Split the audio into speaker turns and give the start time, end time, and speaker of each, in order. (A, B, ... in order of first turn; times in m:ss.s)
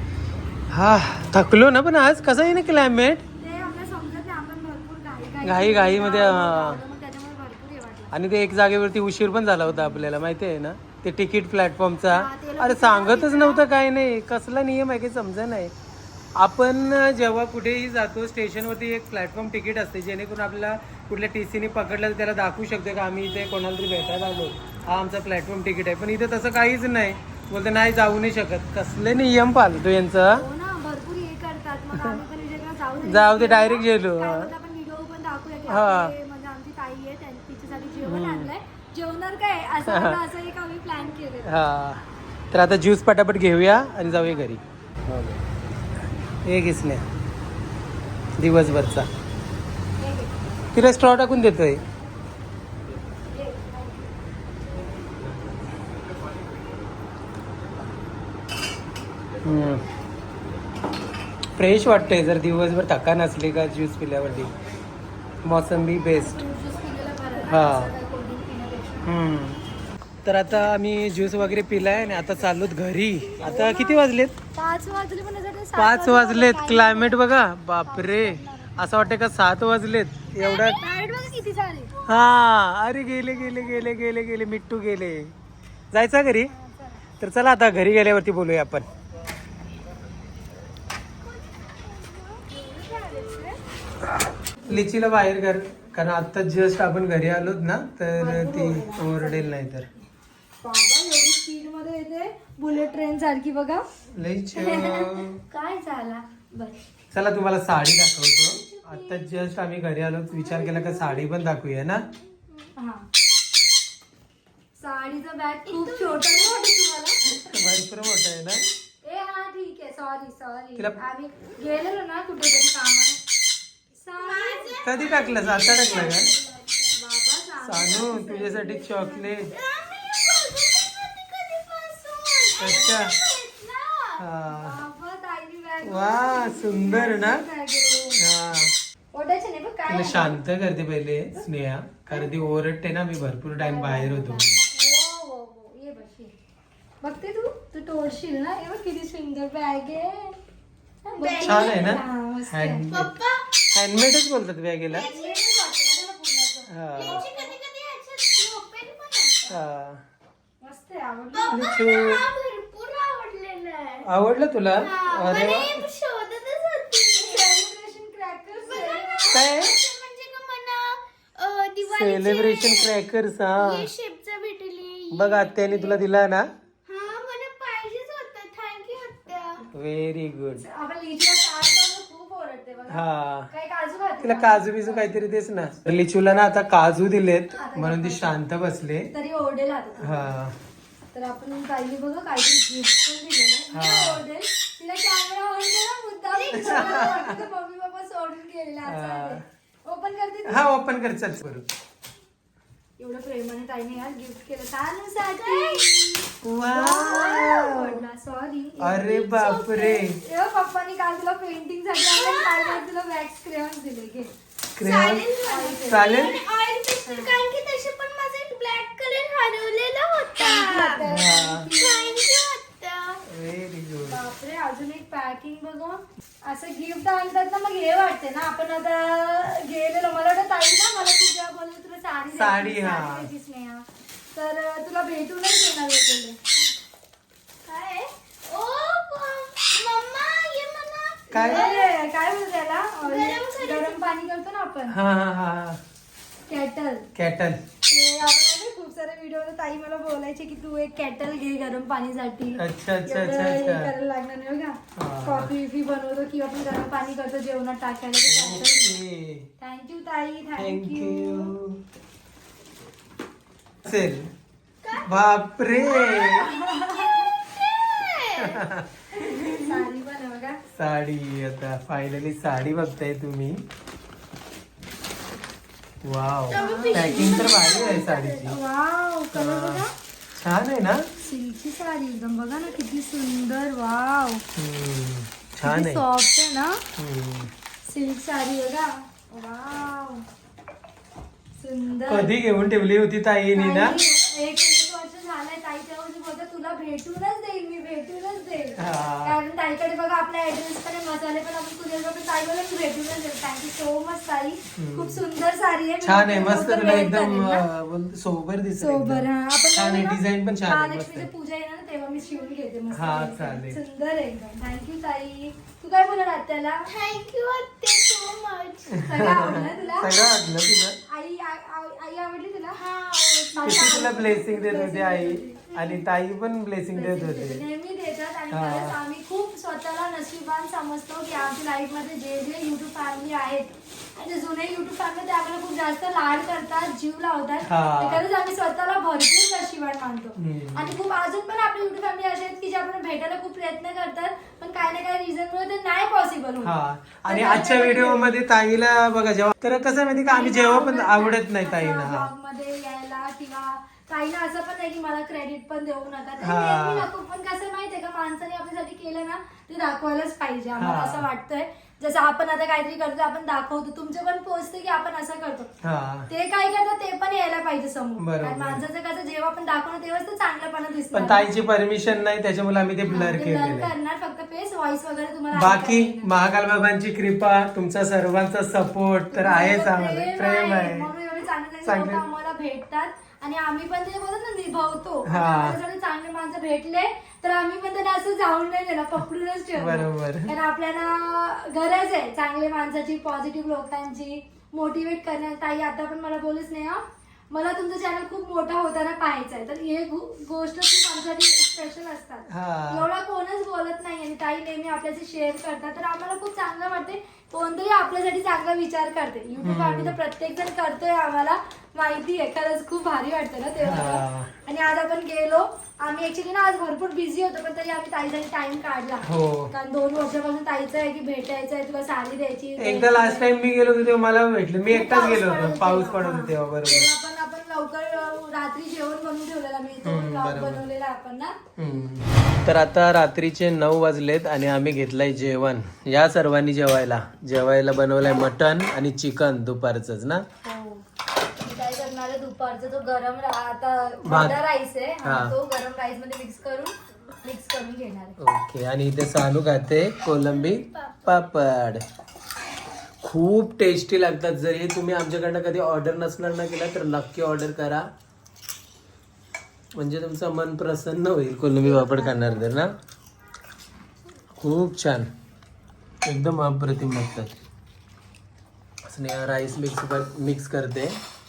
0:00.7-0:03.2 A
0:03.4-0:08.1 B
0:05.4-0:06.8 A
0:08.1-0:15.7 A
0:12.1-0:13.8 B
0:16.4-0:30.4 A
0:23.6-0:24.5 B
0:30.2-0:41.6 B
0:33.0-0:34.5 A
0:35.7-0:36.1 A
0:38.0-0:38.5 A
0:39.8-0:40.2 A
0:41.4-0:45.4 A
0:44.0-0:44.5 B
0:46.4-0:47.0 A
0:48.4-0:49.1 A
0:50.0-0:50.5 B
0:50.7-0:51.8 A
0:53.3-0:53.8 B
0:59.4-0:59.8 A
1:01.6-1:04.5 A
1:05.4-1:06.4 A
1:05.9-1:09.1 B
1:07.4-1:07.9 A
1:09.0-1:09.6 A
1:10.2-1:14.3 A
1:11.3-1:12.3 B
1:13.3-1:17.3 B
1:15.7-1:20.8 A
1:17.8-1:19.2 B
1:20.4-1:22.0 B
1:22.0-1:25.3 A
1:23.3-1:23.9 B
1:25.9-1:26.5 A
1:26.5-1:27.0 B
1:27.2-1:28.9 A
1:31.2-1:32.0 C
1:31.8-1:33.6 B
1:33.0-1:33.4 C
1:34.6-1:39.9 A
1:38.2-1:39.5 B
1:40.6-1:43.8 B
1:44.2-1:45.4 A
1:44.5-1:46.8 B
1:47.1-1:52.0 A
1:48.4-1:49.7 B
1:50.3-1:51.2 B
1:52.8-1:53.1 B
1:54.8-1:57.5 B
1:55.7-1:56.7 C
1:57.3-1:58.6 A
1:59.0-2:03.2 B
2:04.0-2:06.4 B
2:04.2-2:07.0 C
2:04.8-2:06.3 A
2:06.9-2:09.4 B
2:07.6-2:09.5 A
2:09.4-2:14.2 C
2:12.6-2:13.2 A
2:14.2-2:14.8 A
2:14.5-2:18.2 B
2:15.8-2:17.4 A
2:18.1-2:18.7 A
2:19.1-2:20.4 B
2:19.9-2:24.6 A
2:22.1-2:22.4 B
2:23.5-2:26.3 B
2:27.0-2:30.4 B
2:31.0-2:32.0 C
2:31.1-2:32.9 B
2:31.4-2:33.1 A
2:32.9-2:33.5 C
2:33.7-2:35.1 A
2:34.9-2:37.6 B
2:34.9-2:35.5 C
2:36.7-2:37.2 A
2:36.9-2:39.4 C
2:39.5-2:40.0 A
2:40.6-2:41.8 B
2:41.3-2:44.1 C
2:41.5-2:42.2 A
2:44.0-2:45.8 A
2:44.8-2:47.6 C
2:47.1-2:49.7 B
2:48.5-2:53.0 C
2:49.3-2:49.7 A
2:51.8-2:53.9 A
2:53.6-2:56.0 C
2:55.1-2:56.5 A
2:56.8-2:59.6 C
2:59.7-3:00.6 A
3:00.6-3:05.2 B
3:02.9-3:03.5 A
3:04.2-3:09.1 A
3:07.5-3:08.3 B
3:09.1-3:10.3 B
3:10.0-3:10.5 A
3:11.1-3:20.7 B
3:13.7-3:14.2 A
3:16.3-3:17.0 C
3:16.5-3:17.4 A
3:18.8-3:19.4 A
3:20.5-3:21.6 A
3:23.0-3:29.2 B
3:25.4-3:25.9 C
3:26.4-3:28.0 A
3:27.0-3:27.5 C
3:28.8-3:30.2 A
3:29.1-3:30.0 C
3:30.2-3:34.3 B
3:32.1-3:32.8 C
3:34.8-3:35.3 A
3:34.8-3:41.0 C
3:35.4-3:36.4 B
3:35.9-3:36.4 A
3:37.0-3:37.4 B
3:40.4-3:42.2 B
3:41.0-3:41.7 A
3:41.7-3:43.2 C
3:43.2-3:44.2 A
3:44.0-3:56.4 B
3:52.3-3:53.3 A
3:57.6-4:01.9 C
4:01.3-4:01.7 A
4:01.3-4:04.9 B
4:03.0-4:04.0 C
4:04.9-4:05.8 A
4:06.5-4:07.1 B
4:07.1-4:07.6 A
4:07.9-4:19.0 B
4:12.6-4:13.9 A
4:15.0-4:15.5 A
4:18.2-4:19.5 A
4:19.6-4:21.5 B
4:20.6-4:21.8 A
4:23.8-4:24.3 A
4:24.8-4:28.6 C
4:24.9-4:26.5 A
4:26.3-4:27.2 B
4:28.4-4:29.8 A
4:29.1-4:30.6 B
4:30.7-4:33.6 A
4:36.0-4:38.6 A
4:36.5-4:38.4 C
4:36.5-4:39.9 B
4:39.3-4:39.8 A
4:40.4-4:41.0 A
4:41.2-4:44.4 B
4:44.6-4:46.0 A
4:45.6-4:46.8 B
4:47.0-4:47.5 A
4:47.8-4:50.2 B
4:51.6-4:52.3 B
4:52.1-4:54.0 A
4:53.5-5:07.7 B
4:58.8-4:59.4 A
5:04.8-5:05.2 A
5:06.0-5:11.3 A
5:08.8-5:16.9 B
5:12.9-5:13.8 A
5:16.9-5:19.8 C
5:19.0-5:21.0 A
5:19.0-5:20.4 B
5:21.1-5:22.8 B
5:22.7-5:24.1 C
5:23.5-5:26.0 B
5:23.6-5:27.6 A
5:26.9-5:46.7 B
5:28.5-5:29.0 A
5:37.6-5:38.2 A
5:40.4-5:40.9 A
5:46.6-5:52.3 A
5:47.2-5:48.3 B
5:49.7-6:05.7 B
5:56.4-5:57.1 A
6:00.8-6:01.2 A
6:05.8-6:06.3 A
6:06.3-6:11.5 B
6:08.2-6:08.8 A
6:11.1-6:13.9 A
6:13.1-6:16.3 B
6:15.5-6:21.1 A
6:19.3-7:03.6 B
6:21.8-6:22.2 A
6:25.2-6:25.8 A
6:29.8-6:30.5 A
6:42.5-6:43.1 A
6:49.6-6:50.2 A
6:53.8-6:54.5 A
6:59.2-6:59.7 A
7:02.8-7:07.1 A
7:04.9-7:11.6 B
7:10.0-7:10.8 A
7:11.8-7:20.4 A
7:20.6-7:21.0 B
7:21.6-7:28.4 B
7:24.2-7:24.6 A
7:25.2-7:25.5 A
7:28.4-7:32.0 A
7:33.2-7:38.0 A
7:40.0-7:42.9 A
7:41.8-7:42.6 B
7:44.6-7:45.3 A
7:46.2-7:47.6 A
7:49.1-7:51.2 A